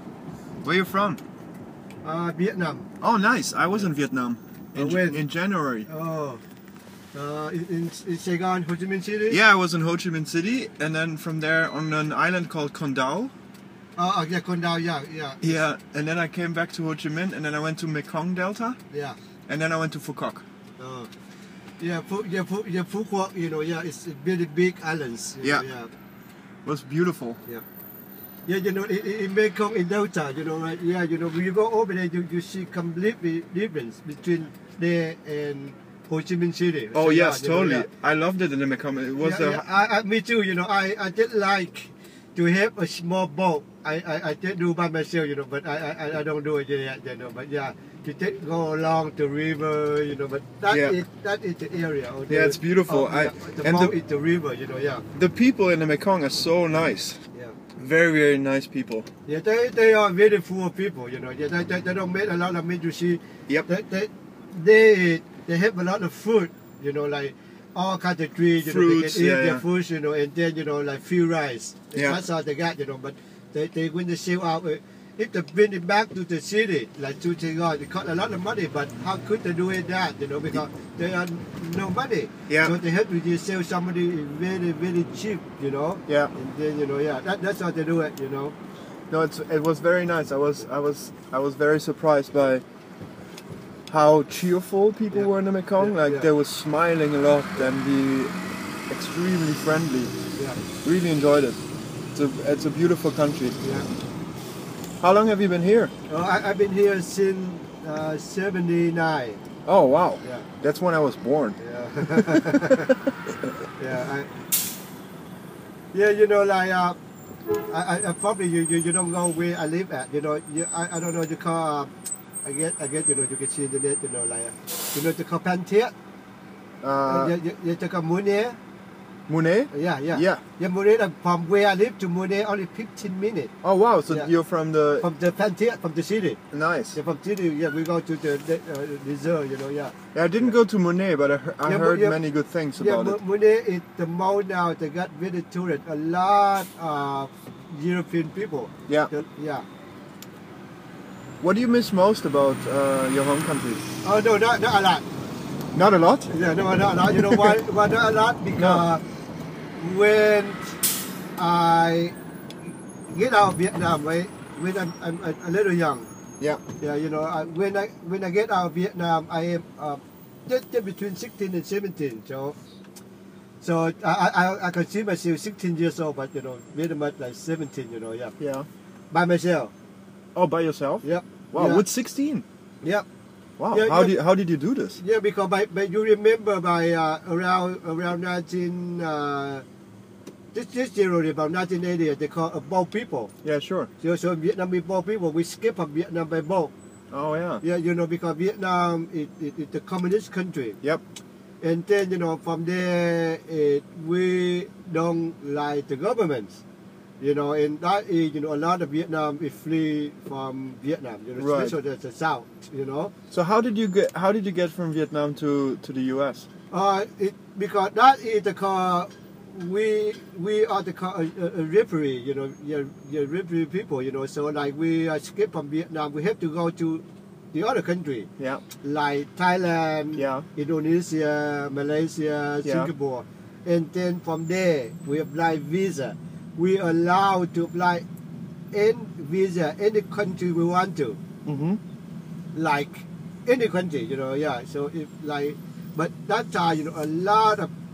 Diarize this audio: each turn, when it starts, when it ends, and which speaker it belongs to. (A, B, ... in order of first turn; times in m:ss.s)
0:00.6-0:01.2 A
0:02.0-0:02.9 B
0:03.0-0:05.9 A
0:04.7-0:05.2 B
0:05.8-0:06.4 B
0:07.1-0:09.4 B
0:09.3-0:13.3 A
0:14.0-0:15.6 B
0:15.4-0:18.8 A
0:18.9-0:19.2 B
0:19.5-0:20.4 A
0:20.8-0:21.1 B
0:21.8-0:25.9 B
0:26.6-0:27.4 A
0:28.4-0:37.9 B
0:36.9-0:39.6 A
0:39.2-0:55.0 B
0:50.7-0:51.0 A
0:52.3-0:53.9 A
0:55.1-0:57.2 A
0:57.8-0:59.1 A
0:59.2-1:28.5 B
1:08.6-1:09.6 A
1:11.9-1:12.2 A
1:22.5-1:22.8 A
1:29.1-1:32.6 A
1:33.9-1:38.3 A
1:35.1-1:36.3 B
1:38.9-1:40.1 A
1:40.4-1:40.6 B
1:40.8-1:41.6 A
1:42.1-1:43.6 A
1:43.6-1:43.9 B
1:45.0-1:45.9 A
1:46.1-1:49.4 B
1:49.6-1:51.6 A
1:50.2-1:50.5 B
1:51.6-1:52.9 B
1:52.1-1:53.1 A
1:53.8-1:54.3 B
1:55.9-1:57.0 B
1:57.7-2:01.9 B
2:02.4-2:05.9 B
2:06.8-2:07.3 A
2:07.0-2:08.6 B
2:09.3-2:10.4 A
2:09.7-2:13.5 B
2:13.6-2:15.0 A
2:15.0-2:16.4 B
2:16.5-2:17.0 A
2:16.9-2:20.6 B
2:20.1-2:23.2 A
2:21.6-2:22.2 B
2:22.8-2:29.6 B
2:31.4-2:33.8 A
2:34.0-2:35.0 B
2:35.7-2:36.3 A
2:36.3-2:39.0 B
2:37.1-2:37.6 A
2:38.6-2:38.8 A
2:39.8-2:40.8 B
2:41.4-2:46.1 B
2:46.8-2:52.6 B
2:53.6-2:58.3 B
2:58.4-2:58.7 A
2:59.1-2:59.7 B
3:00.4-3:02.4 A
3:01.0-3:01.8 B
3:03.6-3:05.0 A
3:03.7-3:04.1 B
3:04.9-3:09.6 B
3:10.5-3:13.3 B
3:13.4-3:13.9 A
3:14.0-3:16.7 B
3:17.1-3:17.6 A
3:17.6-3:20.8 B
3:21.6-3:26.6 B
3:27.2-3:33.1 B
3:31.4-3:31.8 A
3:33.3-3:36.4 A
3:36.7-3:48.3 B
3:48.8-3:58.0 B
3:50.2-3:50.4 A
3:52.6-3:52.9 A
3:58.7-4:01.2 B
4:01.4-4:01.8 A
4:02.5-4:07.7 B